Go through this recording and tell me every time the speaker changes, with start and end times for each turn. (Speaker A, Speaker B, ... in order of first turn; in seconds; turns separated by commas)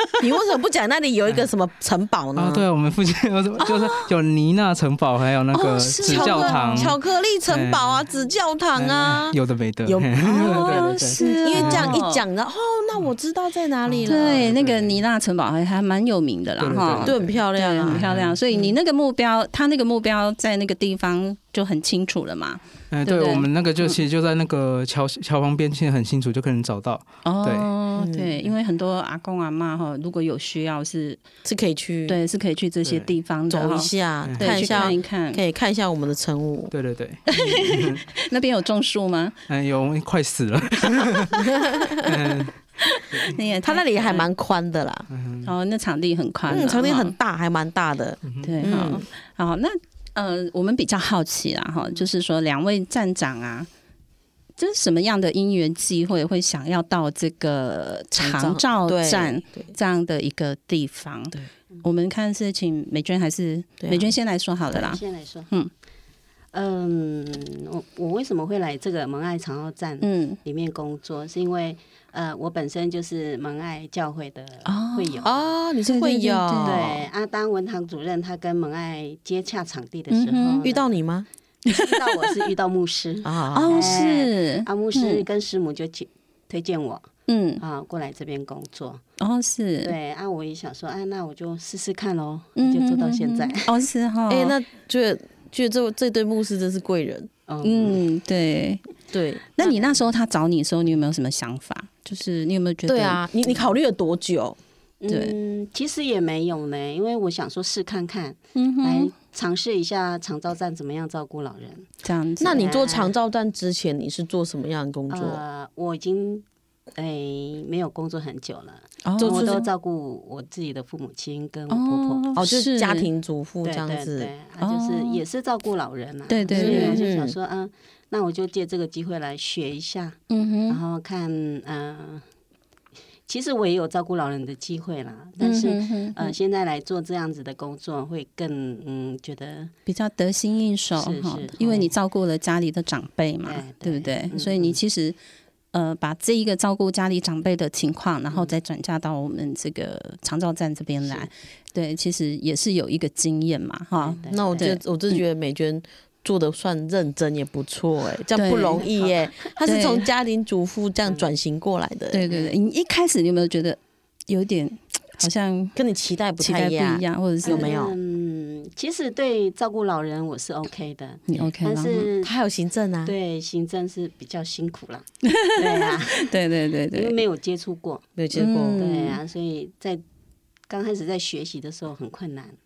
Speaker A: 0.2-2.6, Speaker B: 2.4-8.0, Speaker C: 3.6-4.1, Speaker C: 5.5-6.9, Speaker A: 6.0-14.6, Speaker B: 8.8-11.9, Speaker C: 10.3-12.2, Speaker B: 13.9-15.0, Speaker C: 14.1-24.0, Speaker B: 16.6-17.3, Speaker A: 17.0-18.8, Speaker B: 17.9-18.4, Speaker B: 22.9-27.7, Speaker C: 27.2-31.2, Speaker A: 28.0-28.4, Speaker A: 31.4-32.2, Speaker C: 32.1-35.4, Speaker A: 33.5-36.7, Speaker B: 34.3-34.9, Speaker B: 36.7-38.0, Speaker C: 37.3-39.4, Speaker B: 39.5-42.6, Speaker A: 41.4-42.1, Speaker C: 42.9-44.3, Speaker A: 43.6-45.1, Speaker B: 45.1-45.5, Speaker C: 45.4-47.1, Speaker A: 46.5-49.0, Speaker B: 48.3-48.5, Speaker C: 48.4-53.7, Speaker C: 54.6-65.7, Speaker A: 58.2-59.7, Speaker A: 63.8-64.1, Speaker D: 64.7-65.5, Speaker D: 66.5-75.5, Speaker C: 70.0-70.4, Speaker C: 74.7-75.2, Speaker A: 75.2-77.0, Speaker C: 75.9-76.9, Speaker D: 76.6-80.9, Speaker C: 80.1-80.6, Speaker A: 80.6-81.3, Speaker D: 81.7-87.1, Speaker C: 81.7-82.2, Speaker A: 83.2-84.0, Speaker C: 83.5-85.2, Speaker C: 87.3-87.6, Speaker D: 87.6-89.0, Speaker C: 89.2-89.9, Speaker D: 89.8-93.7, Speaker C: 92.6-94.5, Speaker A: 94.3-97.3, Speaker D: 97.5-98.0, Speaker C: 97.6-98.8, Speaker A: 99.1-99.4, Speaker C: 99.6-103.2, Speaker D: 99.6-100.0, Speaker A: 102.9-104.6, Speaker D: 105.0-111.9, Speaker C: 105.1-105.3, Speaker C: 108.5-109.1, Speaker C: 112.0-112.7, Speaker A: 112.4-115.4, Speaker D: 112.4-113.1, Speaker D: 115.1-122.3, Speaker C: 119.0-119.6, Speaker A: 119.2-119.6, Speaker C: 121.7-123.1, Speaker A: 122.4-124.3, Speaker D: 123.6-132.2, Speaker C: 124.6-125.2, Speaker C: 126.3-127.0, Speaker A: 126.5-127.4, Speaker C: 130.3-130.8, Speaker D: 133.3-139.7, Speaker C: 135.4-136.3, Speaker C: 139.9-145.2, Speaker D: 141.0-141.9, Speaker D: 143.4-144.8, Speaker C: 145.7-155.2, Speaker D: 151.0-151.3, Speaker D: 154.0-154.7, Speaker A: 154.3-162.2, Speaker C: 158.3-158.9, Speaker D: 158.7-159.5, Speaker C: 159.6-160.1, Speaker C: 162.1-165.8, Speaker D: 162.3-162.6, Speaker A: 165.8-167.9, Speaker C: 166.4-167.7, Speaker D: 167.4-172.3, Speaker C: 171.3-172.1, Speaker A: 172.2-173.2, Speaker D: 173.1-175.1, Speaker C: 175.2-177.2, Speaker D: 175.6-176.3, Speaker D: 176.9-178.1, Speaker A: 178.2-178.8, Speaker C: 178.3-179.2, Speaker D: 178.7-180.0, Speaker D: 180.7-182.6